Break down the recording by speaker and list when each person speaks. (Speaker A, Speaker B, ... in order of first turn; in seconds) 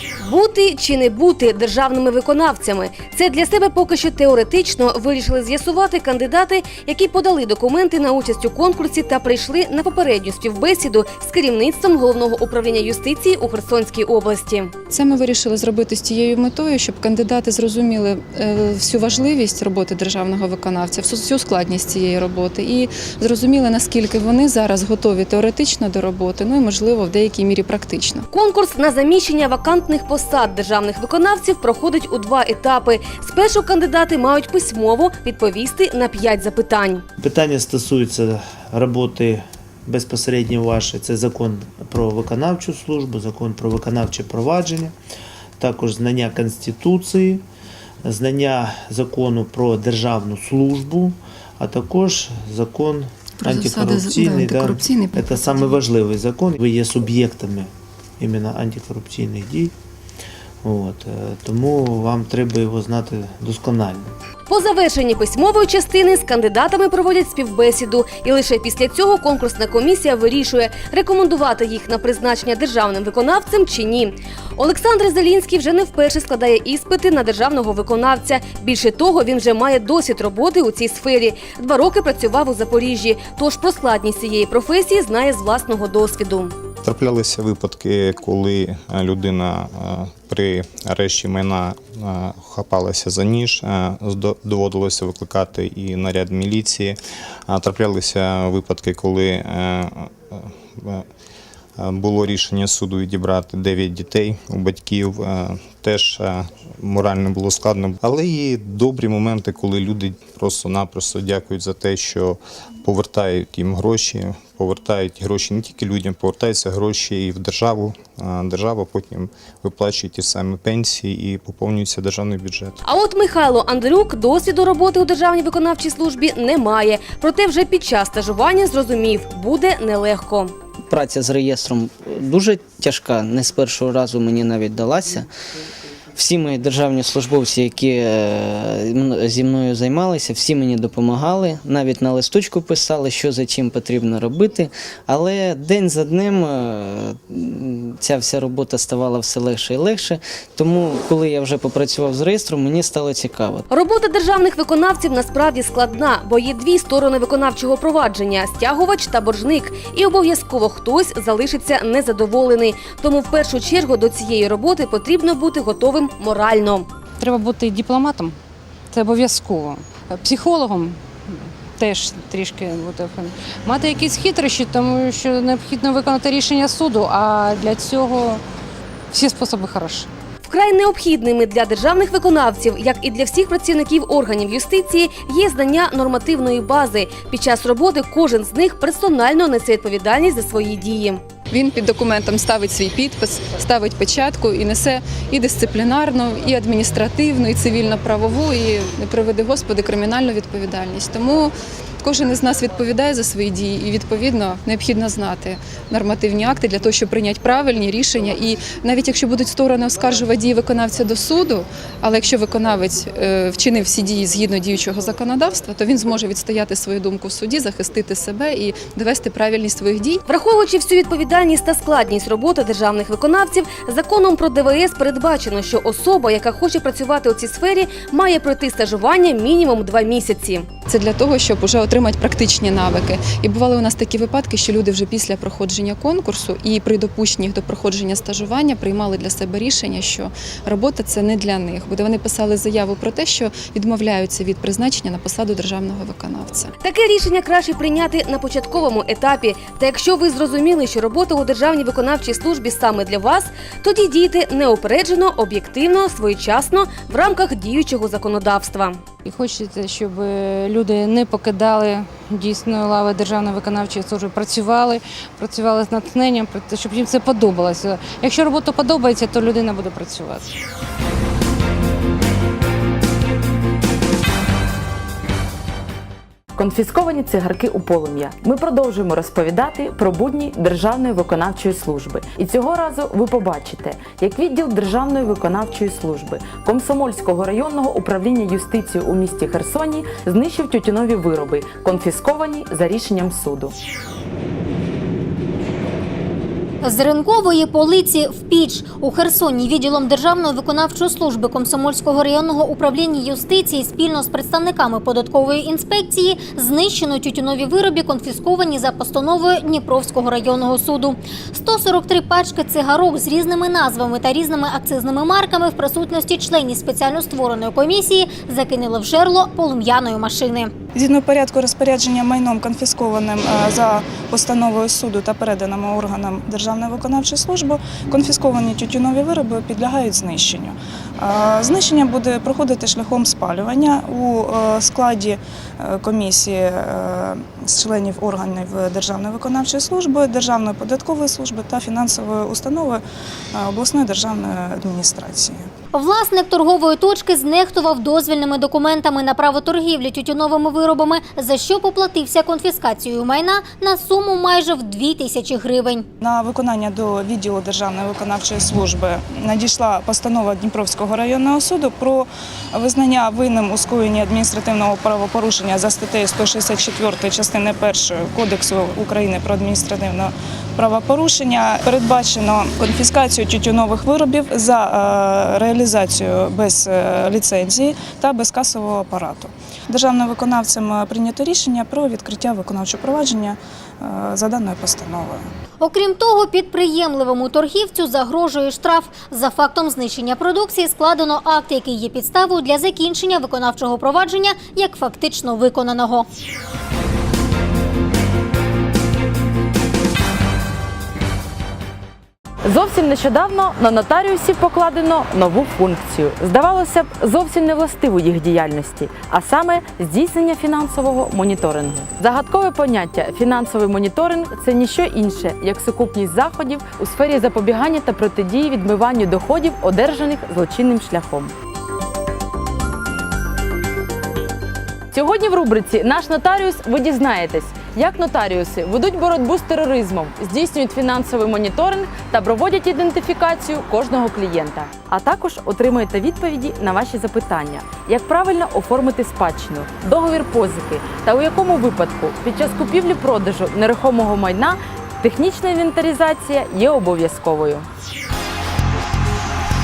Speaker A: 0.2-14.7, 28.3-37.0, 64.5-86.6, 122.8-130.6, 153.7-166.9, 180.5-191.2, 220.3-230.7, 246.8-259.0
Speaker B: 14.9-28.3, 53.4-55.8, 191.5-220.2, 230.9-246.7
Speaker C: 37.2-44.9, 45.6-47.4, 48.0-59.8, 60.6-64.1
Speaker D: 86.8-101.1, 101.8-122.8
Speaker E: 130.9-135.3, 136.2-153.7
Speaker F: 167.2-168.4, 168.9-178.4, 179.1-180.1, 259.2-270.5
Speaker G: 276.6-293.8, 402.6-421.5, 425.1-447.9
Speaker H: 296.8-320.7, 345.9-356.1, 385.8-396.3
Speaker I: 320.9-343.0, 343.5-345.7, 356.2-385.4